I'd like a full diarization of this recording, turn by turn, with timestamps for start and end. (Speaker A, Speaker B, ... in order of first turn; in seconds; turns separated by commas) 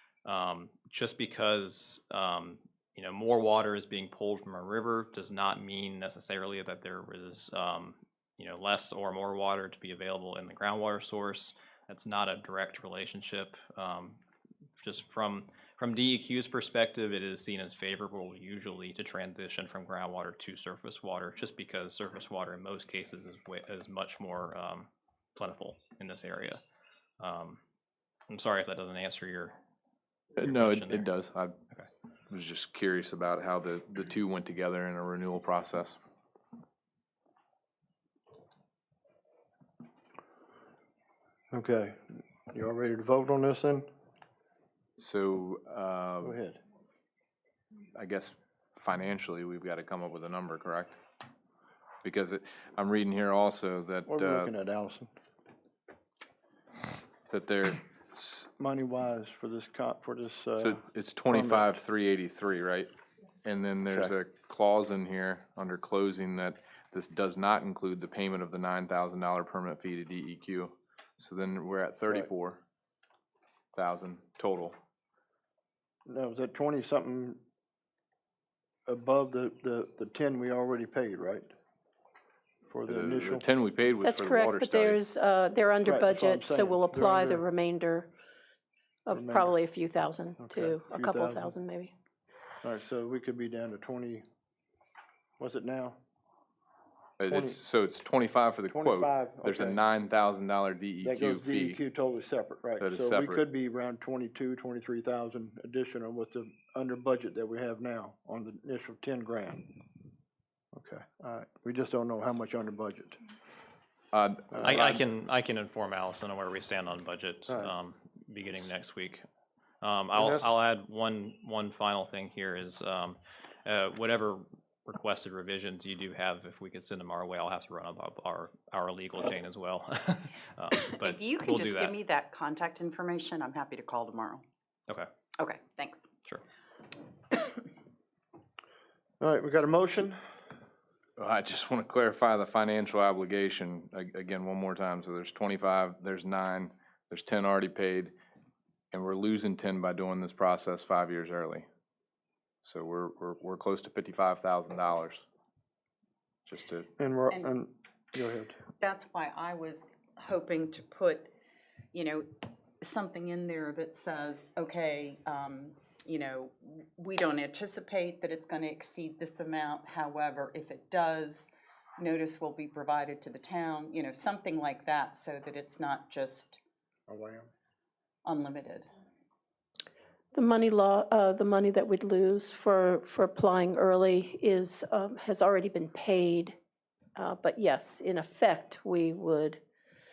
Speaker A: 0.2-14.2, Speaker A: 14.8-26.6, Speaker A: 27.2-27.6, Speaker A: 28.3-29.6, Speaker A: 30.4-31.1, Speaker B: 30.4-31.5, Speaker B: 32.3-36.0, Speaker C: 41.5-42.0, Speaker C: 42.5-43.9, Speaker B: 45.0-46.4, Speaker C: 46.2-46.6, Speaker B: 47.9-51.0, Speaker B: 52.0-54.5, Speaker C: 54.1-55.1, Speaker B: 57.3-57.8, Speaker C: 58.1-60.8, Speaker B: 60.6-62.9, Speaker C: 61.3-61.6, Speaker B: 63.4-72.6, Speaker B: 73.7-74.7, Speaker C: 76.1-77.4, Speaker C: 78.9-81.5, Speaker C: 82.7-83.4, Speaker B: 82.9-85.0, Speaker D: 84.0-88.1, Speaker C: 85.8-87.4, Speaker D: 89.0-91.9, Speaker C: 89.1-89.5, Speaker C: 90.4-91.5, Speaker C: 92.6-94.2, Speaker C: 95.4-96.0, Speaker B: 97.2-101.8, Speaker C: 97.3-97.6, Speaker C: 98.7-99.8, Speaker C: 101.0-109.8, Speaker B: 102.8-103.4, Speaker C: 110.7-113.2, Speaker B: 114.1-115.0, Speaker A: 114.6-119.2, Speaker C: 117.5-117.7, Speaker A: 119.8-131.9, Speaker C: 120.1-120.5, Speaker E: 130.9-134.4, Speaker E: 135.4-136.0, Speaker C: 139.2-140.2, Speaker B: 141.2-148.1, Speaker B: 148.9-151.7, Speaker B: 152.6-155.2, Speaker B: 156.5-156.9, Speaker C: 157.0-158.6, Speaker E: 158.8-161.3, Speaker E: 161.9-162.2, Speaker E: 162.8-176.6, Speaker C: 177.1-177.5, Speaker E: 178.2-178.9, Speaker D: 180.3-186.6, Speaker D: 187.2-189.6